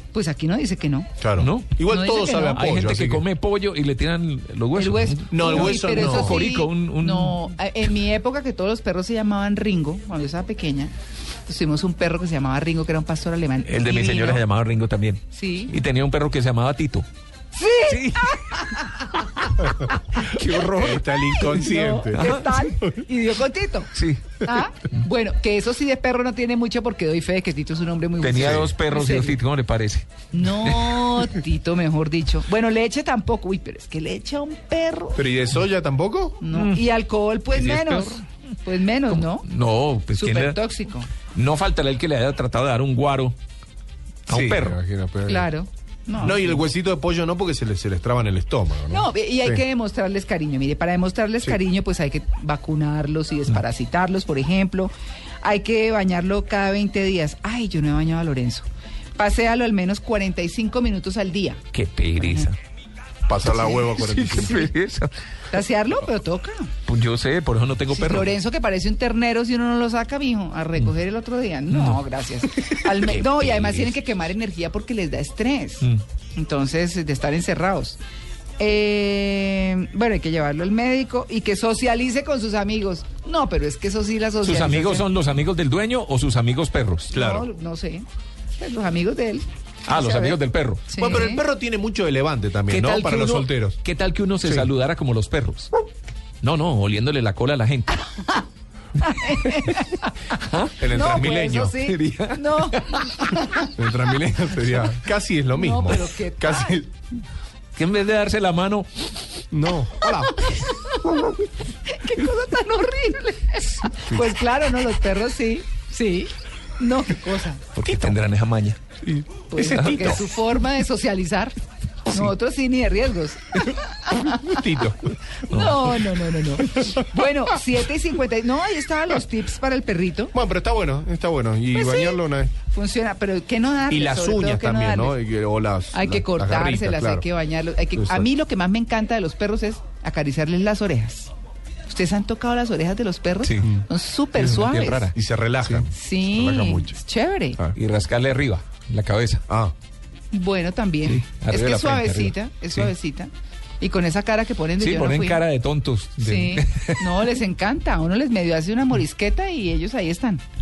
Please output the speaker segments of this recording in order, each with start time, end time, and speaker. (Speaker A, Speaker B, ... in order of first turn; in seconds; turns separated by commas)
Speaker A: 0.1-1.2, Speaker B: 1.2-3.2, Speaker C: 1.4-1.8, Speaker A: 1.8-2.7, Speaker C: 2.5-7.5, Speaker A: 4.7-10.9, Speaker B: 5.3-6.4, Speaker A: 11.5-14.4, Speaker C: 13.6-17.1, Speaker A: 15.3-15.8, Speaker A: 17.5-20.3, Speaker C: 17.8-18.8, Speaker C: 19.6-21.6, Speaker B: 20.6-23.0, Speaker A: 21.4-29.4, Speaker C: 22.1-22.6, Speaker C: 23.9-24.4, Speaker C: 28.2-31.2, Speaker B: 28.4-28.7, Speaker A: 30.3-35.2, Speaker B: 35.1-36.4, Speaker A: 36.4-39.5, Speaker C: 36.5-36.8, Speaker B: 37.5-38.2, Speaker C: 39.1-40.6, Speaker A: 40.1-41.1, Speaker C: 41.3-43.3, Speaker C: 44.2-44.8, Speaker B: 44.3-45.5, Speaker A: 45.2-46.6, Speaker B: 46.2-49.6, Speaker A: 48.9-58.6, Speaker A: 59.2-62.5, Speaker C: 61.7-62.5, Speaker B: 63.3-64.7, Speaker C: 63.4-65.1, Speaker A: 63.5-64.7, Speaker A: 65.5-66.7, Speaker C: 66.8-68.3, Speaker A: 67.9-78.0, Speaker C: 71.7-73.9, Speaker A: 78.6-85.1, Speaker C: 84.4-87.2, Speaker B: 87.1-87.5, Speaker A: 87.1-88.0, Speaker A: 88.6-91.4, Speaker C: 89.8-91.2, Speaker B: 91.0-93.8, Speaker C: 92.7-95.7, Speaker B: 94.4-94.7, Speaker C: 96.4-98.0, Speaker A: 98.2-98.4, Speaker A: 99.0-100.1, Speaker C: 99.2-103.4, Speaker B: 100.8-101.8, Speaker A: 100.9-103.7, Speaker B: 103.8-106.9, Speaker A: 105.5-106.8, Speaker C: 107.7-109.1, Speaker B: 109.5-110.4, Speaker A: 110.1-117.6, Speaker C: 113.9-114.3, Speaker C: 117.7-118.8, Speaker B: 117.9-118.1, Speaker B: 119.0-120.2, Speaker A: 119.5-121.5, Speaker C: 119.6-120.2, Speaker A: 122.1-124.7, Speaker B: 124.3-125.2, Speaker A: 125.4-130.3, Speaker C: 125.5-126.0, Speaker B: 130.3-132.5, Speaker A: 131.7-135.2, Speaker B: 133.9-137.2, Speaker A: 135.9-141.3, Speaker B: 137.9-138.3, Speaker A: 141.9-145.1, Speaker C: 143.4-143.8, Speaker C: 144.3-145.8, Speaker B: 144.4-147.0, Speaker A: 145.9-147.7, Speaker C: 147.7-149.4, Speaker B: 149.5-149.7, Speaker A: 150.3-153.3, Speaker C: 151.1-152.9, Speaker A: 153.8-155.4, Speaker C: 154.8-157.3, Speaker A: 156.2-160.4